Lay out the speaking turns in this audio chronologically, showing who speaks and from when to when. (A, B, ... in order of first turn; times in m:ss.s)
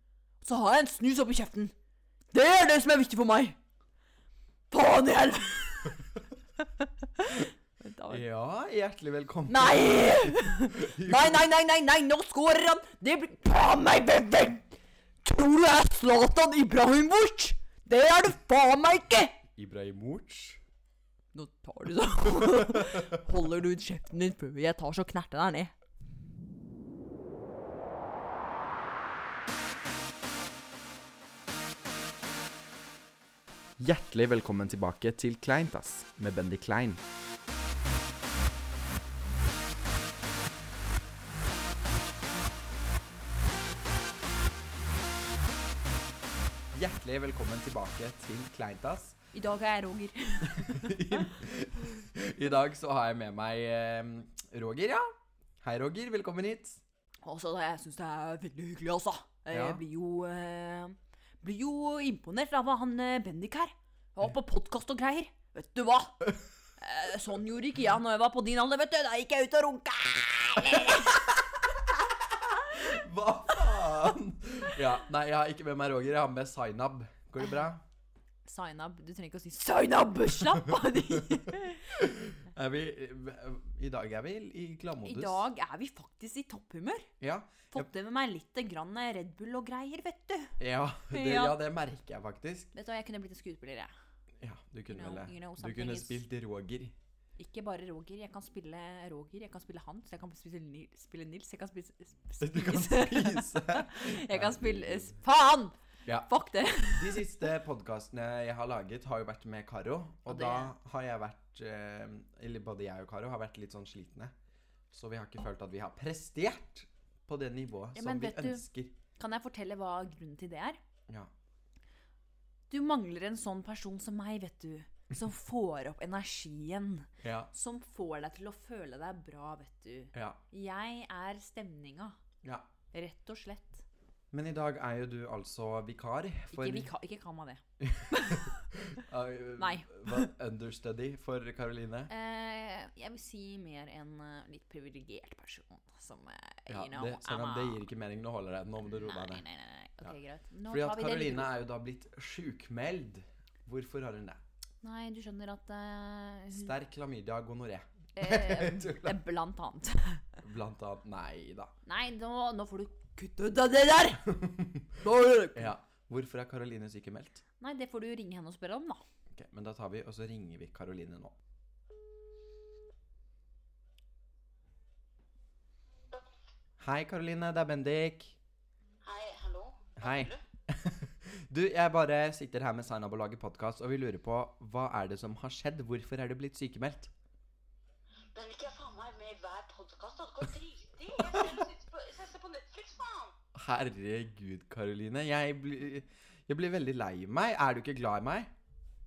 0:00.4-0:01.7 A
0:02.3-0:03.6 A
0:04.7-0:06.0 A
0:06.6-0:08.2 A
0:08.1-0:11.5 B
0:09.5-0:14.7 A
0:15.2-0:19.4 A
0:19.6-0:20.6 B
0:21.3-0:25.7 A
0:22.4-0:23.0 B
0:33.8-0:37.0 B
0:46.7-0:49.2 B
0:49.3-0:51.3 A
0:50.4-0:55.1 B
0:55.6-0:56.8 B
0:57.2-1:11.3 A
0:59.5-0:59.8 B
1:12.6-1:17.8 B
1:13.6-1:14.1 A
1:18.4-1:22.4 A
1:20.5-1:25.4 B
1:25.0-1:27.1 A
1:27.2-1:27.9 B
1:27.7-1:31.6 A
1:30.6-1:32.7 B
1:32.7-1:33.9 A
1:34.4-1:37.0 B
1:34.9-1:36.2 A
1:37.4-1:47.3 A
1:42.4-1:45.2 B
1:46.9-1:54.3 B
1:50.3-1:50.7 A
1:54.9-1:58.9 B
1:57.9-2:00.8 A
2:02.7-2:12.2 A
2:07.2-2:07.5 B
2:10.1-2:10.4 B
2:12.4-2:12.7 B
2:12.9-2:13.8 A
2:14.3-2:16.9 B
2:16.5-2:18.7 A
2:17.8-2:22.1 B
2:19.6-2:20.3 A
2:22.1-2:27.8 A
2:26.7-2:29.4 B
2:28.9-2:31.5 A
2:30.0-2:34.4 B
2:34.8-2:36.7 A
2:36.5-2:39.2 B
2:38.2-2:40.4 A
2:40.4-2:41.7 B
2:41.8-2:44.3 A
2:44.3-2:45.0 B
2:45.0-2:45.7 A
2:45.5-2:47.4 B
2:47.6-2:49.0 A
2:49.3-2:51.3 B
2:56.8-2:58.4 B
2:59.0-3:00.4 C
3:00.0-3:07.1 B
3:08.3-3:13.3 C
3:11.2-3:11.7 B
3:13.6-3:18.5 B